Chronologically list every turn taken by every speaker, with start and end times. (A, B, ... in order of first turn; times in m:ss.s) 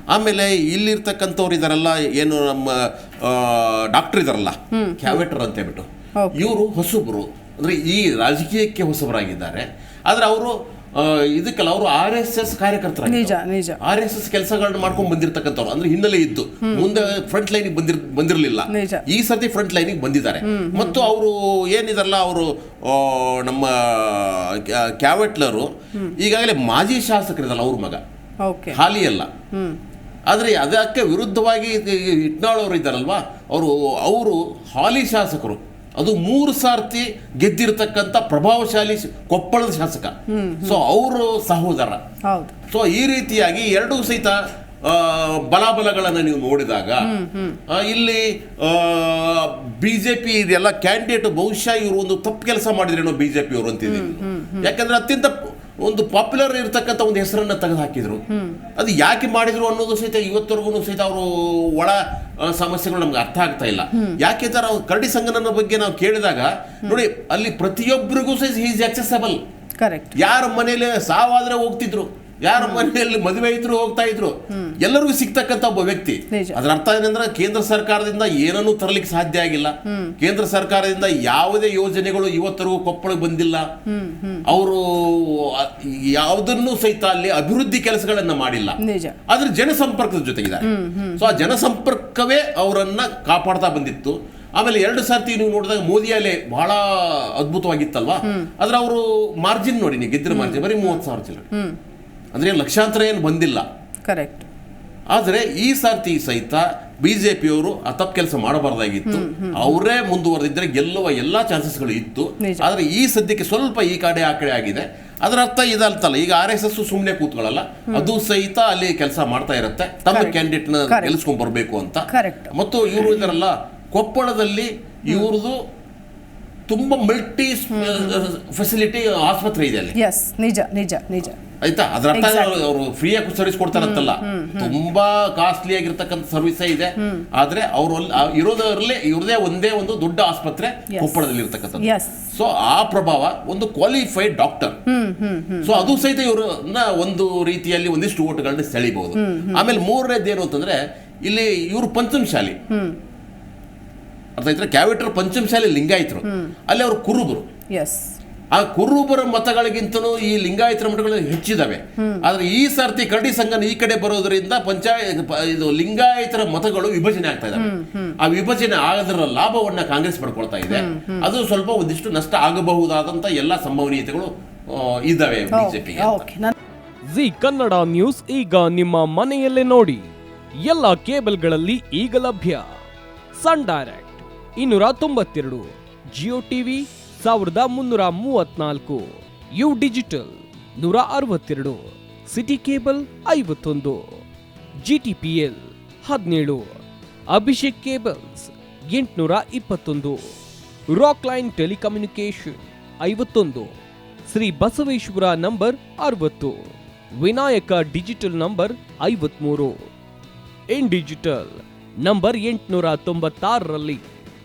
0:00.1-0:28.0 A
0:04.7-0:05.2 B
0:06.2-0:06.5 B
0:13.1-0:13.8 B
0:16.6-0:17.0 B
0:18.7-0:19.0 B
0:20.4-0:21.0 B
0:28.4-0:28.8 B
0:28.7-0:29.3 A
0:30.3-0:40.1 A
0:40.3-0:40.8 B
0:40.6-0:42.0 A
0:42.3-0:42.5 B
0:42.7-0:47.1 A
0:47.0-0:47.6 B
0:47.7-0:58.2 A
0:53.9-0:54.7 B
0:58.3-0:58.6 B
0:58.8-1:09.4 A
1:09.8-1:10.1 B
1:10.2-1:23.6 A
1:12.6-1:12.8 B
1:14.5-1:14.8 B
1:16.3-1:16.6 B
1:19.9-1:20.1 B
1:23.9-1:24.5 B
1:24.5-1:41.5 A
1:28.8-1:29.2 B
1:30.6-1:31.3 B
1:40.3-1:41.0 B
1:42.3-1:43.6 A
1:44.1-1:44.4 B
1:45.1-2:05.6 A
1:49.0-1:49.8 B
1:52.4-1:52.7 B
2:00.1-2:01.2 B
2:02.1-2:02.5 B
2:06.7-2:09.9 A
2:07.7-2:08.2 B
2:10.0-2:11.4 B
2:11.6-2:24.8 A
2:12.1-2:12.6 B
2:13.7-2:14.8 B
2:17.0-2:17.2 B
2:20.9-2:21.2 B
2:21.8-2:22.2 B
2:24.9-2:25.9 B
2:25.6-2:32.6 A
2:29.2-2:29.6 B
2:32.7-2:33.0 B
2:34.4-2:37.4 A
2:36.2-2:36.5 B
2:37.7-2:38.1 B
2:38.5-2:56.2 A
2:42.0-2:42.2 B
2:47.6-2:48.2 B
2:50.7-2:51.3 B
2:55.5-2:56.5 B
2:57.1-3:00.0 C
3:00.6-3:02.7 C
3:03.4-3:14.2 C
3:14.8-3:16.8 C
3:17.3-3:20.3 C
3:20.9-3:23.7 C
3:24.3-3:29.8 C
3:30.7-3:34.0 C